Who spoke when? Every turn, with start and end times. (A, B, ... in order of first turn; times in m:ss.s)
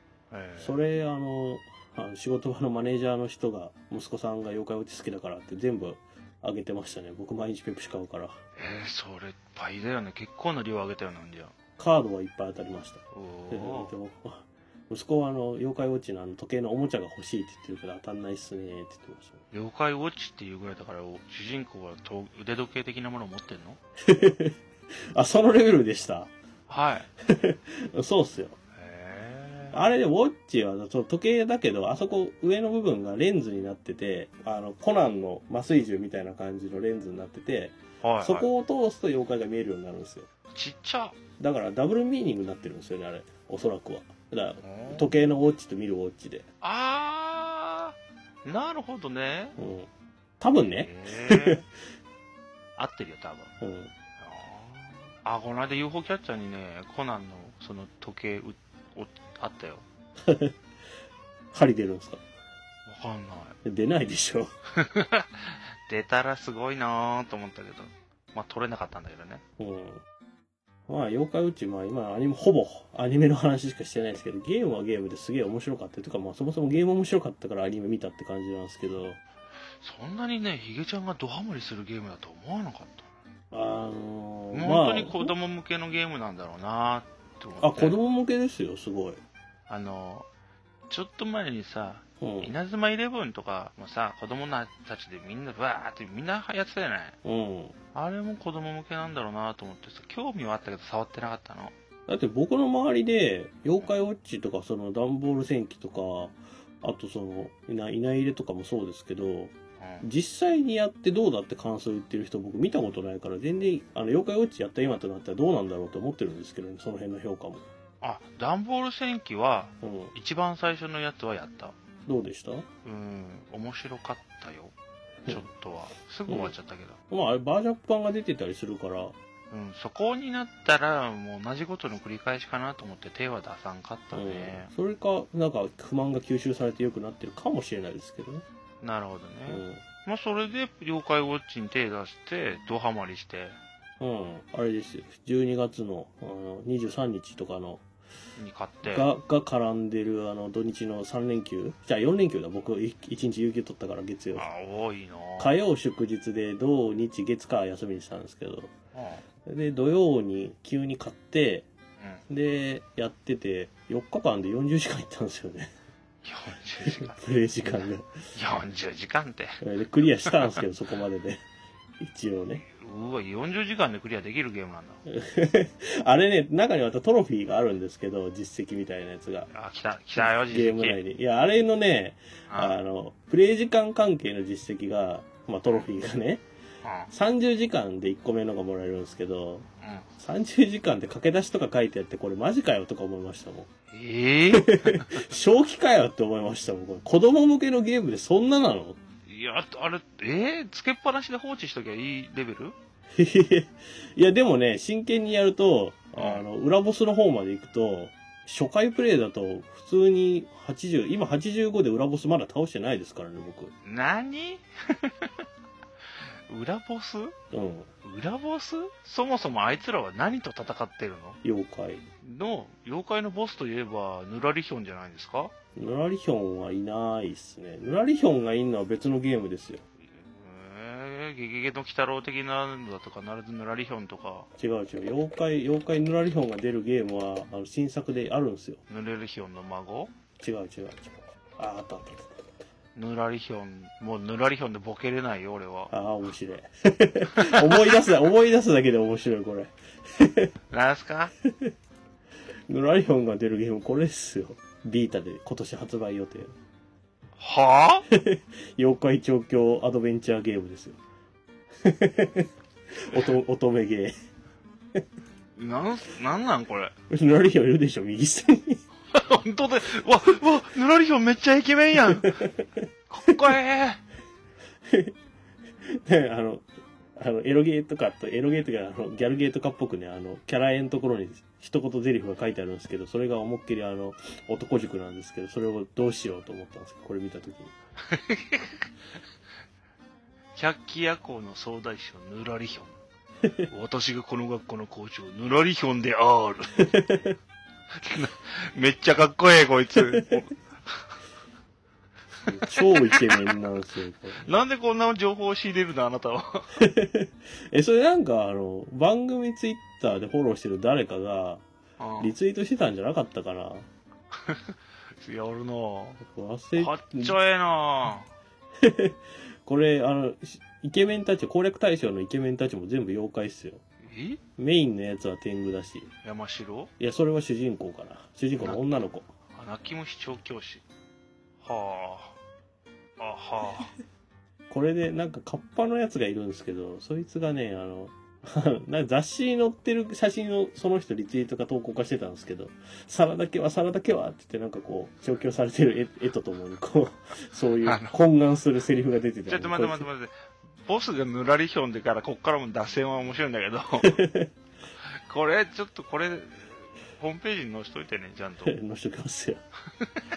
0:00.3-0:00.8 A
0:00.6-0:08.4 B
0:08.6-0:11.5 A
0:11.8-0:19.4 B
0:13.1-0:13.9 A
0:19.5-0:23.8 A
0:24.0-0:24.6 B
0:25.1-0:26.3 B
0:26.7-0:27.1 A
0:27.2-0:28.6 B
0:28.8-0:29.8 A
0:29.7-0:40.3 B
0:38.0-0:38.5 A
0:40.5-0:41.2 A
0:41.4-0:46.4 B
0:44.6-0:45.1 A
0:46.6-0:49.6 A
0:49.6-0:49.9 B
0:50.4-0:51.6 B
0:50.7-0:51.6 A
0:52.8-0:53.5 A
0:53.6-0:53.9 B
0:54.2-0:59.8 A
1:00.2-1:00.5 B
1:01.5-1:02.2 B
1:02.8-1:03.6 A
1:03.6-1:04.5 B
1:04.8-1:09.4 A
1:09.6-1:10.0 B
1:10.9-1:19.2 B
1:19.8-1:23.1 A
1:23.5-1:25.3 B
1:24.5-1:28.0 A
1:27.6-1:29.2 B
1:29.7-1:30.3 A
1:30.9-1:37.2 A
1:32.2-1:32.5 B
1:37.2-1:37.7 B
1:37.9-1:41.7 A
1:42.1-1:57.6 B
1:49.8-1:50.0 A
1:58.0-2:01.8 A
1:59.8-2:00.1 B
2:02.0-2:02.7 B
2:02.8-2:04.7 A
2:05.2-2:07.0 A
2:06.3-2:06.5 B
2:07.1-2:09.1 B
2:09.5-2:14.7 A
2:14.1-2:18.4 B
2:18.8-2:23.6 A
2:19.5-2:19.8 B
2:24.0-2:27.8 B
2:28.4-2:29.1 A
2:28.8-2:34.5 B
2:34.3-2:35.5 A
2:35.4-2:38.7 B
2:38.9-2:39.2 A
2:39.4-2:41.7 B
2:42.3-2:45.7 B
2:46.2-2:47.2 A
2:46.8-2:48.1 B
2:48.3-2:49.6 A
2:49.6-2:51.4 B
2:52.0-2:52.6 B
2:52.7-2:55.0 A
2:55.1-2:59.5 B
2:59.5-3:01.0 A
3:00.2-3:06.4 B
3:02.5-3:02.8 A
3:06.8-3:07.1 A
3:07.1-3:09.6 B
3:10.2-3:13.7 B
3:13.9-3:15.3 A
3:14.5-3:19.0 B
3:19.3-3:22.8 A
3:23.1-3:33.7 B
3:26.2-3:26.4 A
3:33.8-3:35.3 A
3:36.5-3:37.3 A
3:37.5-3:37.9 B
3:38.0-3:41.4 A
3:41.4-3:42.0 B
3:42.2-3:45.5 A
3:45.8-3:49.8 B
3:50.1-3:54.5 A
3:54.6-3:58.8 B
3:58.9-4:00.1 A
4:00.4-4:02.3 B
4:02.9-4:05.9 A
4:05.9-4:10.5 B
4:07.3-4:07.9 A
4:10.7-4:11.3 A
4:11.4-4:11.7 B
4:12.7-4:16.5 B
4:17.4-4:18.0 A
4:18.1-4:21.0 B
4:21.8-4:24.1 B
4:25.6-4:26.9 A
4:27.1-4:28.8 B
4:29.1-4:32.4 A
4:32.2-4:33.4 B
4:33.1-4:34.0 A
4:34.9-4:35.1 B
4:35.8-4:47.7 B
4:48.1-4:48.8 A
4:50.5-4:53.0 A
4:53.7-4:56.9 A
4:56.8-4:57.4 B
4:57.9-5:01.0 A
4:59.9-5:00.4 B
5:02.4-5:03.4 A
5:02.4-5:04.5 B
5:04.4-5:06.8 A
5:06.8-5:11.6 B
5:12.0-5:12.3 A
5:12.2-5:13.9 B
5:14.4-5:16.2 A
5:16.2-5:17.4 B
5:16.8-5:18.3 A
5:18.8-5:23.8 B
5:24.0-5:24.4 A
5:24.6-5:26.1 B
5:26.2-5:26.9 A
5:27.0-5:29.3 B
5:28.6-5:28.8 A
5:29.5-5:30.8 A
5:31.6-5:32.4 A
5:33.2-5:33.9 A
5:34.7-5:50.1 B
5:47.8-5:48.2 A
5:49.5-5:50.3 A
5:50.8-5:54.2 A
5:54.0-5:54.5 B
5:55.0-5:58.7 A
5:58.6-5:59.6 B